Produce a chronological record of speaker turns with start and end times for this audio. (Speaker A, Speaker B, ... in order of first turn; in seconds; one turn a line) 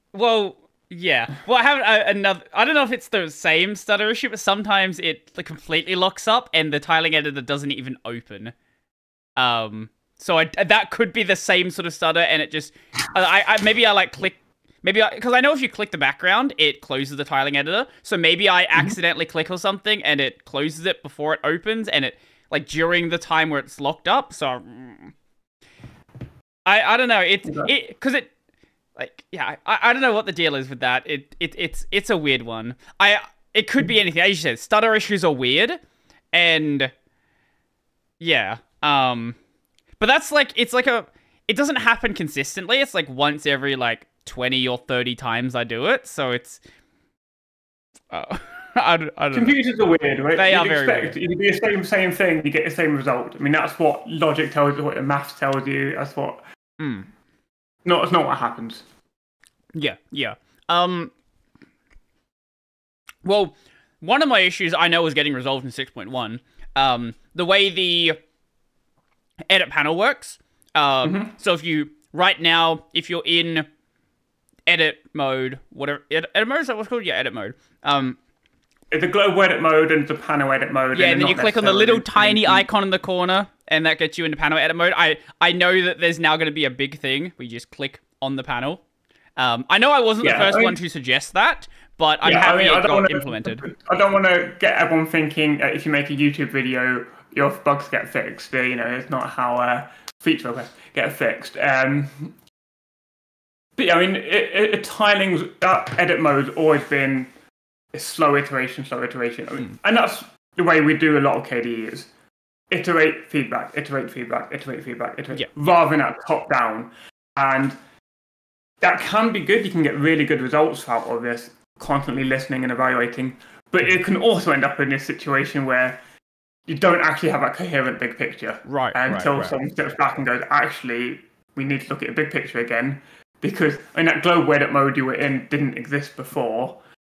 Speaker A: 0.1-8.5
Speaker A: 9.4-25.1
Speaker A: 26.7-28.3
Speaker B: 27.5-27.7
Speaker A: 29.0-35.8
Speaker A: 36.3-36.9
Speaker A: 38.2-39.4
Speaker A: 40.0-46.6
Speaker A: 48.1-49.6
Speaker B: 49.3-56.4
Speaker A: 50.4-51.2
Speaker A: 56.8-57.1
Speaker B: 57.8-58.8
Speaker A: 59.8-61.1
Speaker A: 63.2-68.2
Speaker A: 69.5-73.7
Speaker B: 71.0-71.3
Speaker A: 74.7-78.2
Speaker B: 78.9-82.7
Speaker A: 80.9-88.8
Speaker A: 89.4-93.6
Speaker B: 90.2-90.8
Speaker B: 92.2-102.3
Speaker B: 103.8-107.3
Speaker B: 107.9-112.1
Speaker B: 112.7-117.8
Speaker B: 118.8-126.0
Speaker B: 126.7-136.8
Speaker A: 128.7-129.5